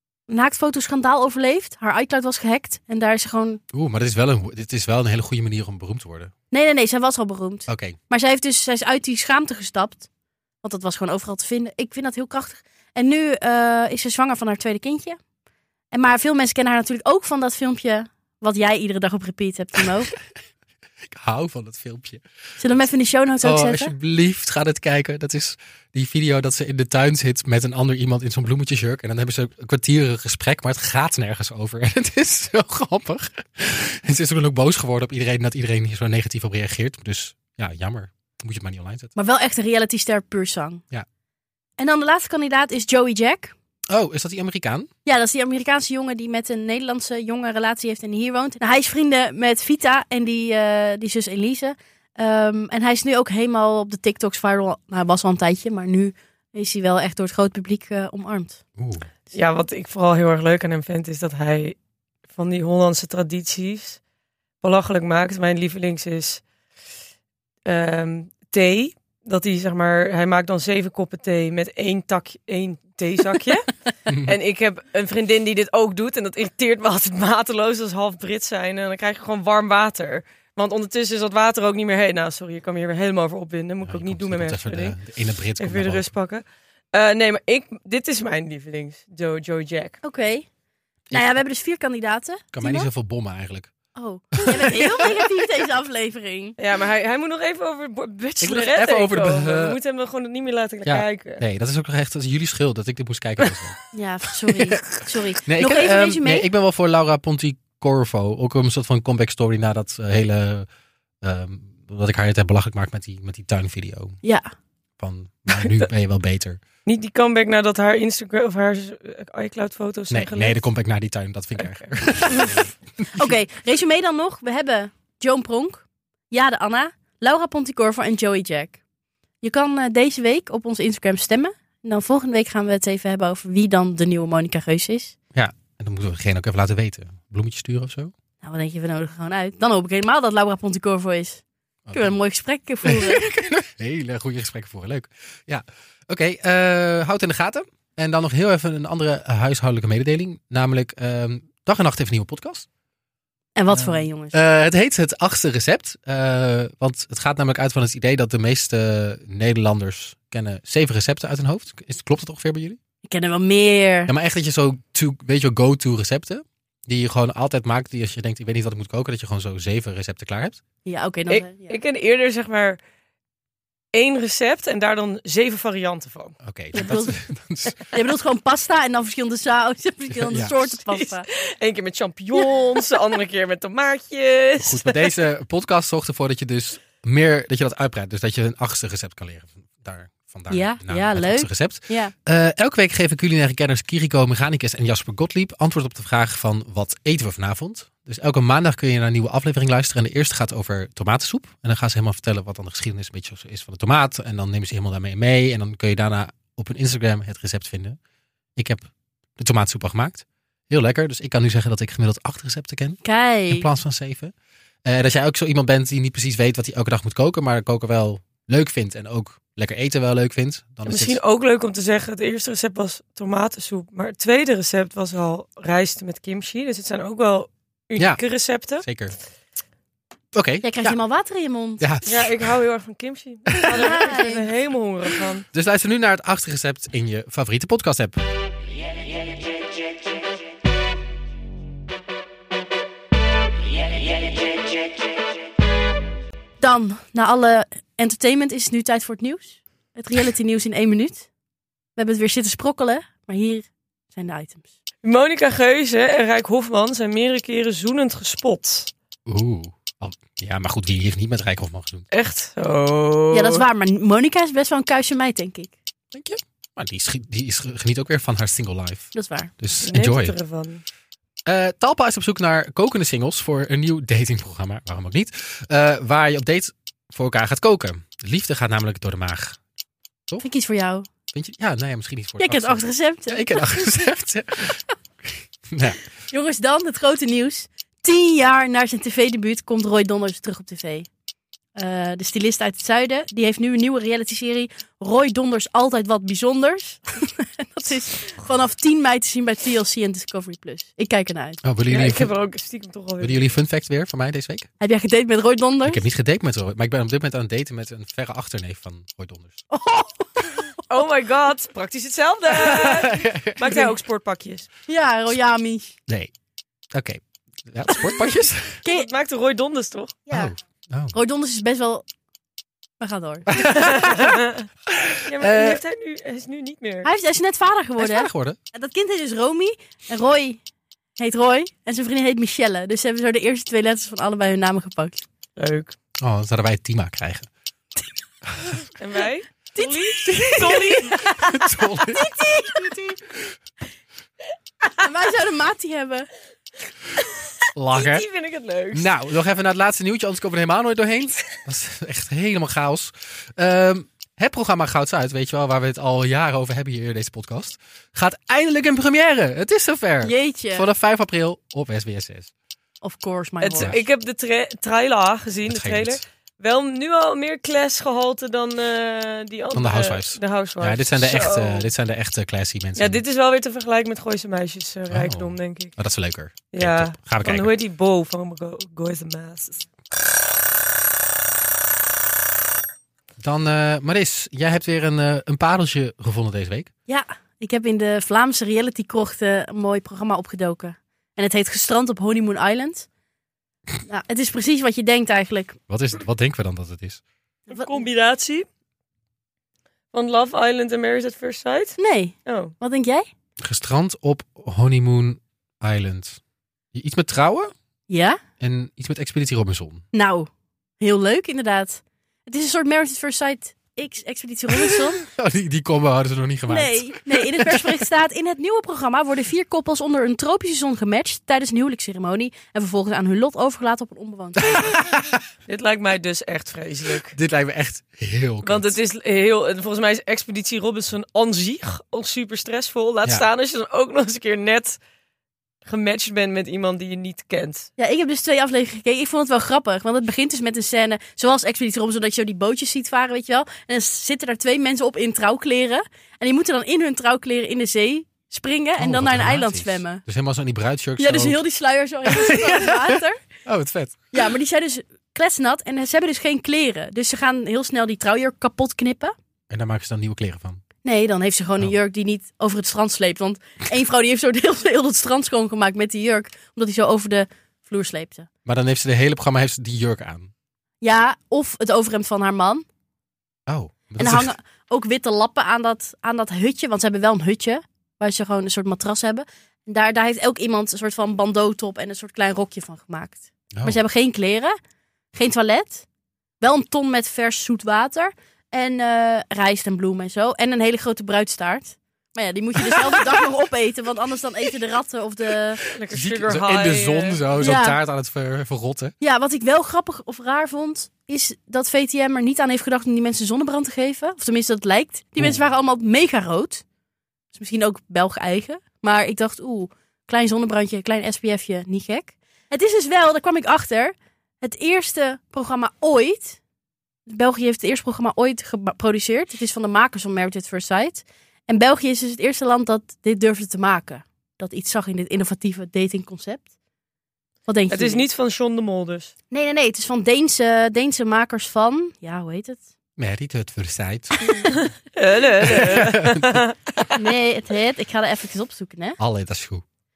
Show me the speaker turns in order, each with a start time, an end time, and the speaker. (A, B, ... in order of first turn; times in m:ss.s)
0:00.3-0:03.6 A
0:03.7-0:06.3 B
0:06.5-0:10.1 A
0:07.7-0:08.0 B
0:10.6-0:15.2 A
0:15.9-0:20.1 A
0:21.0-0:22.2 B
0:22.6-0:23.9 A
0:23.4-0:39.1 B
0:39.2-0:40.8 A
0:41.8-0:43.5 A
0:43.9-0:44.9 B
0:45.0-0:58.6 A
0:58.8-0:59.1 B
0:59.3-1:01.8 C
1:02.3-1:04.0 C
1:04.6-1:06.4 C
1:07.6-1:13.7 C
1:14.1-1:14.3 B
1:14.2-1:25.0 C
1:23.8-1:26.1 B
1:25.6-1:30.0 C
1:30.0-1:30.5 A
1:31.1-1:32.9 A
1:31.1-1:31.4 B
1:32.5-1:33.7 B
1:33.9-1:36.6 A
1:34.4-1:35.1 B
1:36.6-1:41.4 C
1:38.4-1:39.8 B
1:40.8-1:43.8 B
1:43.9-1:46.5 A
1:45.4-1:50.7 B
1:51.2-1:54.2 B
1:54.2-1:54.5 A
1:55.0-1:56.6 B
1:56.8-2:00.6 C
2:00.1-2:03.3 B
2:03.1-2:08.8 A
2:09.4-2:15.1 A
2:15.3-2:18.1 B
2:18.4-2:23.2 A
2:21.9-2:22.1 B
2:22.8-2:32.6 B
2:33.6-2:34.4 A
2:33.7-2:42.8 B
2:43.0-2:44.1 A
2:44.1-2:50.6 B
2:50.8-2:51.8 A
2:51.3-2:52.8 C
2:53.9-2:56.4 C
2:56.4-2:57.8 B
2:56.7-2:57.2 A
2:57.9-3:01.3 A
3:00.1-3:00.7 B
3:00.9-3:05.1 C
3:04.6-3:28.0 B
3:10.5-3:12.1 A
3:28.6-3:33.0 B
3:33.0-3:33.7 A
3:33.5-3:34.3 B
3:34.8-3:41.2 B
3:40.8-3:48.8 C
3:48.0-3:48.2 B
3:48.8-3:49.1 B
3:50.3-3:51.0 B
3:50.6-3:51.8 A
3:51.8-3:52.5 B
3:52.0-3:55.4 C
3:53.7-3:54.4 A
3:55.5-3:58.2 B
4:06.6-4:11.3 A
4:12.0-4:14.6 A
4:15.0-4:18.9 C
4:19.3-4:22.0 B
4:22.1-4:23.6 C
4:23.3-4:25.7 A
4:26.1-4:30.4 B
4:29.1-4:29.5 A
4:29.8-4:30.8 C
4:31.4-4:39.6 B
4:40.4-4:41.1 A
4:41.3-4:44.8 B
4:42.4-4:43.9 A
4:45.7-4:46.0 B
4:46.3-4:51.1 A
4:51.8-5:01.6 A
5:01.6-5:02.3 B
5:01.9-5:03.5 C
5:03.2-5:04.7 B
5:04.8-5:06.0 A
5:05.8-5:09.6 B
5:09.7-5:10.8 A
5:10.9-5:14.7 C
5:12.5-5:13.8 B
5:14.9-5:16.0 A
5:16.9-5:18.8 B
5:18.8-5:20.2 C
5:20.3-5:20.5 A
5:20.3-5:21.1 B
5:21.1-5:22.0 A
5:23.0-5:24.1 A
5:23.5-5:24.3 B
5:23.7-5:24.6 C
5:24.9-5:25.8 B
5:25.2-5:27.1 C
5:27.0-5:30.6 A
5:28.0-5:28.6 B
5:31.2-5:35.2 A
5:35.6-5:36.0 C
5:36.2-5:37.5 B
5:39.0-5:41.2 C
5:39.8-5:43.0 A
5:41.2-5:42.4 B
5:44.9-5:46.3 A
5:47.7-5:48.2 B
5:47.9-5:49.1 C
5:48.9-6:02.5 B
6:00.2-6:00.9 A
6:03.0-6:03.9 A
6:03.6-6:11.9 C
6:05.6-6:06.2 B
6:09.7-6:13.2 B
6:13.0-6:15.9 C
6:15.1-6:17.7 B
6:16.7-6:19.8 C
6:23.4-6:26.9 B
6:27.1-6:33.1 A
6:34.0-6:35.8 A
6:35.9-6:37.2 B
6:37.7-6:38.7 C
6:37.7-6:38.0 A
6:40.1-6:42.7 C
6:42.0-6:43.3 A
6:43.6-6:46.4 B
6:46.9-6:47.7 B
6:48.1-6:48.4 A
6:48.6-6:50.0 B
6:50.1-6:50.5 A
6:51.0-6:55.2 A
6:54.7-6:58.0 B
6:56.7-7:04.9 A
7:04.6-7:05.4 B
7:05.7-7:07.4 C
7:07.3-7:08.9 B
7:08.6-7:15.0 C
7:15.8-7:17.9 C
7:18.0-7:30.2 A
7:29.0-7:31.6 B
7:31.2-7:33.4 A
7:32.2-7:34.5 B
7:34.3-7:39.3 A
7:39.7-7:40.8 B
7:41.0-7:48.5 A
7:48.6-7:50.5 B
7:51.0-7:52.8 A
7:53.7-7:54.5 B
7:54.2-8:04.8 A
8:03.7-8:04.0 B
8:05.3-8:06.0 A
8:06.6-8:15.8 A
8:15.8-8:17.5 C
8:16.1-8:19.1 B
8:17.6-8:18.0 A
8:19.2-8:26.8 A
8:27.5-8:36.6 A
8:37.3-8:46.6 A
8:47.7-8:48.2 A
8:47.9-8:49.3 C
8:49.5-8:52.8 A
8:53.2-8:54.7 B
8:54.6-8:57.2 C
8:55.6-8:56.6 B
8:57.1-8:59.2 A
8:59.2-8:59.8 B